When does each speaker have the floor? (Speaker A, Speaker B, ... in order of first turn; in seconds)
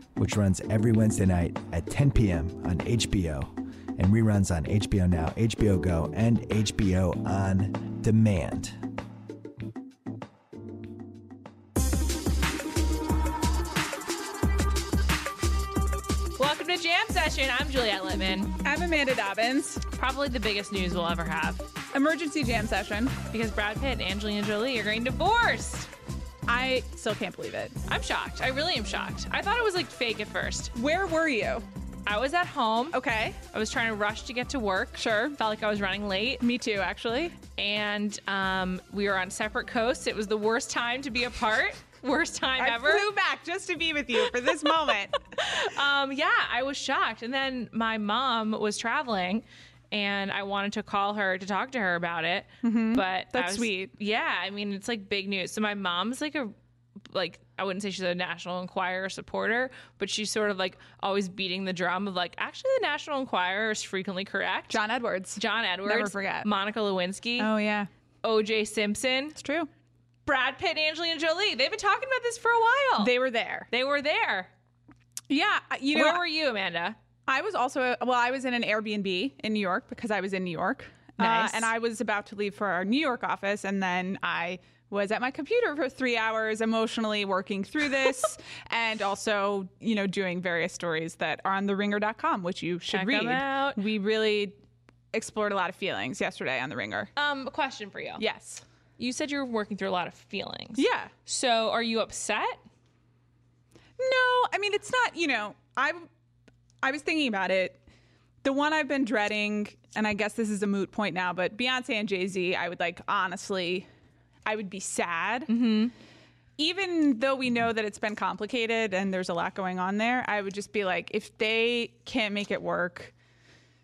Speaker A: 0.2-8.8
Speaker B: 16.4-18.5, 19.9-21.7, 23.3-25.9, 27.9-30.7, 32.1-33.0, 33.5-36.4, 37.6-43.1, 45.3-56.5, 57.1-64.8, 65.4-67.5, 68.2-69.4, 70.2-73.1, 73.7-74.5, 75.9-77.0, 81.2-81.7, 92.9-93.8, 97.2-98.2, 99.0-102.6, 115.5-115.9
Speaker C: 18.6-19.9, 21.9-23.2, 26.5-27.8, 30.7-31.7, 32.9-33.4, 35.0-35.4, 36.4-37.4, 42.6-45.2, 52.6-53.9, 64.7-66.5, 67.4-67.9, 69.4-69.7, 73.0-73.7, 75.3-76.2, 77.3-94.6, 95.1-97.1, 98.2-98.6, 100.8-101.1, 104.0-106.1, 106.8-107.8, 108.4-113.9, 114.5-115.5, 116.6-123.1